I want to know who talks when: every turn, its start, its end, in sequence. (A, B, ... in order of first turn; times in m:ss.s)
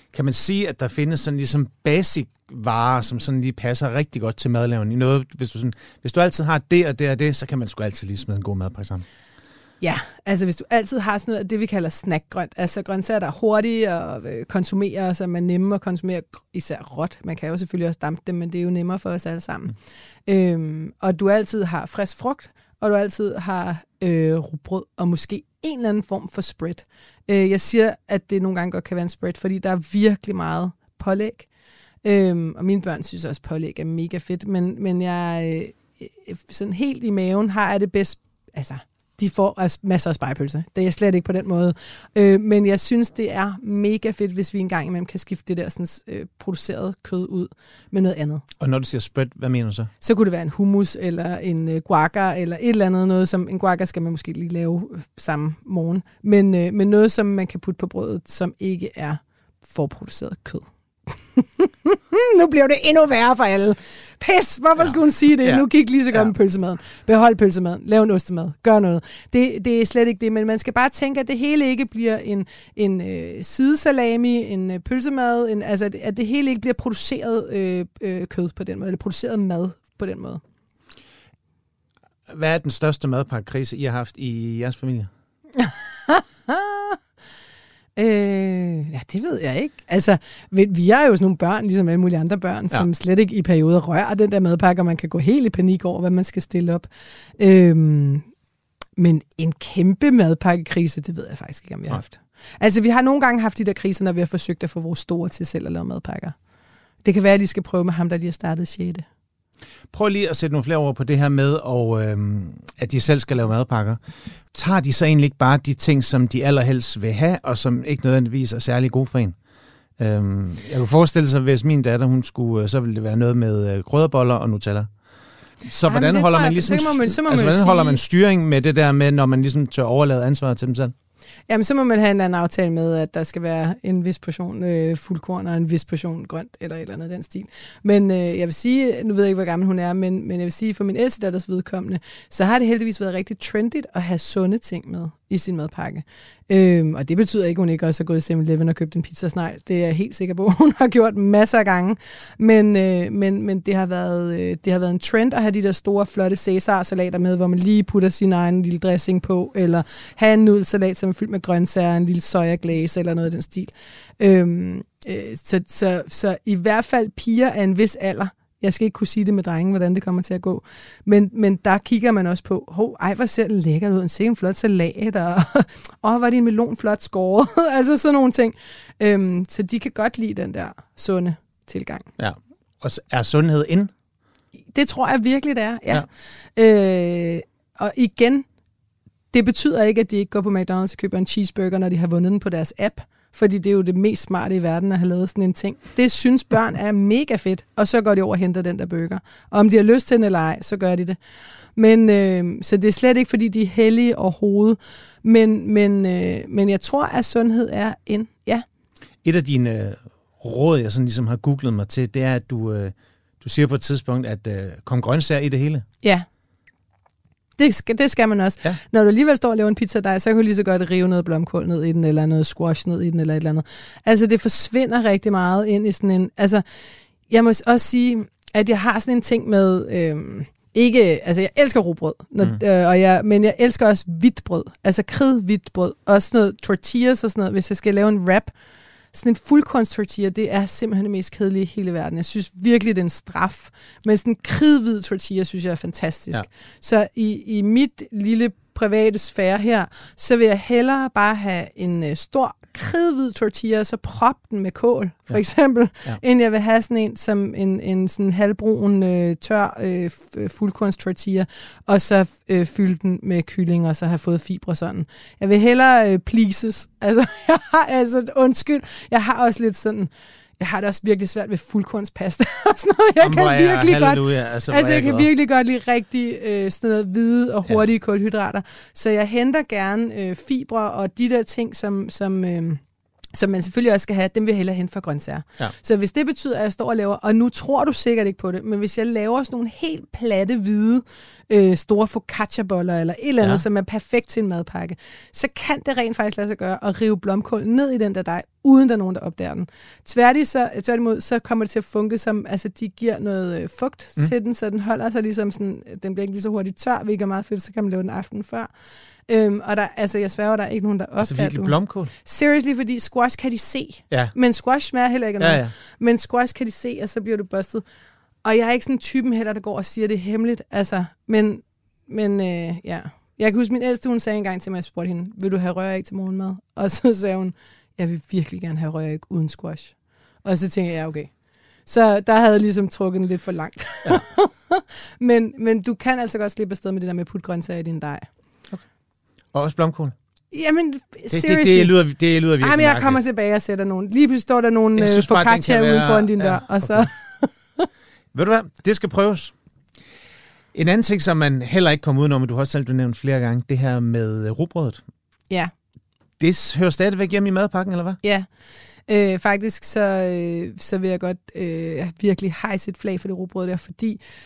0:00.1-0:09.0 A
0:09.8-0:19.8 B
0:20.3-0:31.5 B
0:32.0-0:48.4 B
0:48.6-0:49.9 A
0:50.0-1:20.4 B
1:04.8-1:06.3 A
1:22.3-1:25.1 A
1:25.6-1:27.0 B
1:28.0-1:36.9 B
1:37.4-1:38.2 B
1:39.0-1:46.4 B
1:47.0-1:49.0 B
1:49.9-1:54.0 A
1:54.5-1:59.4 A
2:00.0-2:04.9 A
2:05.7-2:10.9 A
2:05.9-2:08.0 B
2:11.5-3:02.1 B
3:02.2-3:03.9 A
3:04.7-3:08.5 B
3:09.3-3:21.2 B
3:21.8-3:28.6 B
3:29.2-3:35.8 A
3:37.6-3:46.6 B
3:47.3-3:58.5 B
3:59.1-4:42.8 B
4:33.2-4:35.3 A
4:43.3-5:08.7 B
5:09.3-5:17.8 B
5:11.2-5:12.1 A
5:15.4-5:15.7 A
5:18.4-5:31.3 B
5:31.9-5:38.3 B
5:39.5-5:40.2 A
5:40.5-5:41.9 B
5:41.3-5:43.2 A
5:42.6-5:47.9 B
5:45.0-5:47.1 A
5:48.3-5:49.5 A
5:50.7-5:55.0 A
5:56.4-5:58.2 A
5:59.1-6:04.2 B